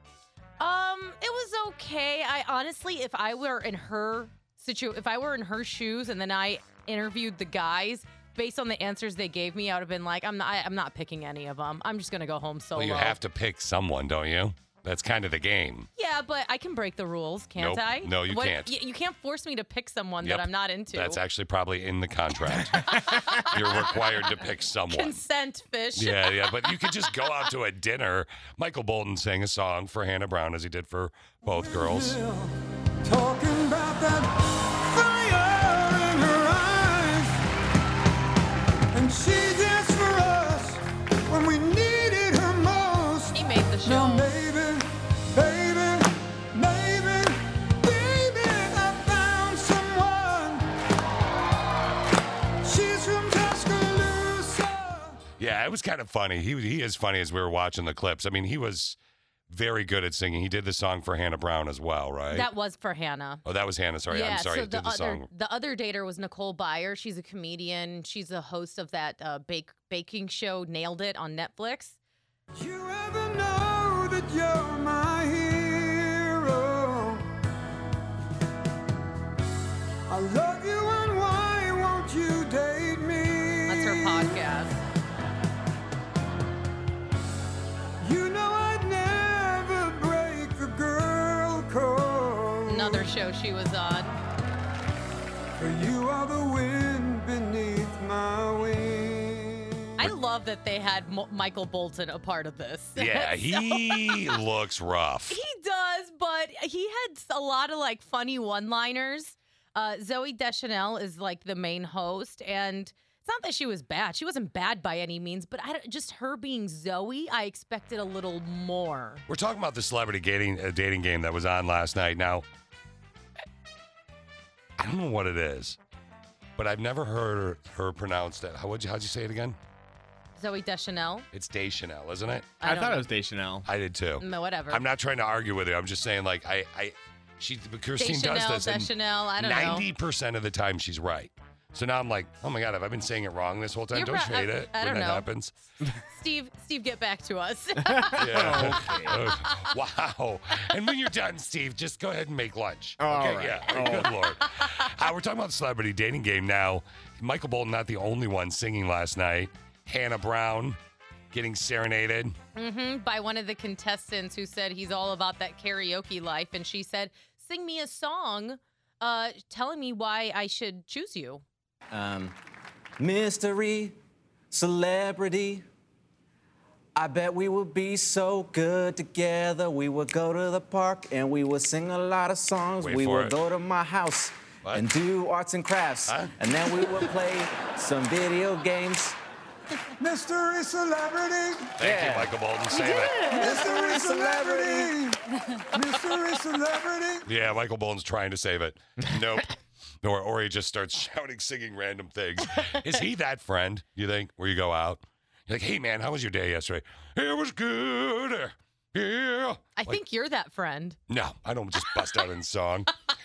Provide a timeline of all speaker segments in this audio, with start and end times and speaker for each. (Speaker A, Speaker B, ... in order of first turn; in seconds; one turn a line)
Speaker A: 0.6-13.2
Speaker B: 12.8-15.9
Speaker A: 16.0-21.2
Speaker B: 17.6-18.7
Speaker B: 20.2-25.1
Speaker A: 22.9-24.2
Speaker A: 24.9-27.0
Speaker B: 25.9-32.2
Speaker C: 31.5-37.4
Speaker C: 38.9-50.6
Speaker A: 43.3-44.3
Speaker C: 52.6-55.2
Speaker B: 55.4-59.0
Speaker B: 59.5-62.5
Speaker A: 62.3-63.4
Speaker B: 63.4-65.3
Speaker A: 64.1-72.0
Speaker C: 72.5-77.2
Speaker C: 80.1-84.3
Speaker A: 83.7-84.8
Speaker C: 88.0-93.1
Speaker A: 92.7-94.2
Speaker C: 95.6-99.8
Speaker A: 100.0-104.4
Speaker B: 103.0-105.4
Speaker A: 105.3-119.2
Speaker B: 119.3-122.4
Speaker B: 124.8-125.8
Speaker B: 126.6-129.6
Speaker A: 130.3-131.3
Speaker B: 131.3-132.6
Speaker A: 132.6-133.0
Speaker D: 132.6-133.7
Speaker B: 133.6-145.5
Speaker A: 134.2-134.8
Speaker A: 138.0-139.8
Speaker A: 143.9-145.2
Speaker A: 146.1-148.5
Speaker D: 147.8-149.2
Speaker B: 148.1-160.8
Speaker D: 153.0-154.1
Speaker B: 161.3-162.3
Speaker A: 162.6-171.4
Speaker E: 171.9-172.3
Speaker E: 173.0-173.9
Speaker E: 174.5-175.7
Speaker E: 176.9-189.2
Speaker B: 182.8-183.3
Speaker C: 190.0-191.8
Speaker B: 191.8-193.3
Speaker E: 191.8-192.3
Speaker A: 192.7-193.9
Speaker C: 193.3-195.2
Speaker E: 193.7-194.9
Speaker C: 195.7-197.2
Speaker B: 197.2-210.0
Speaker A: 209.8-211.0
Speaker B: 211.1-212.9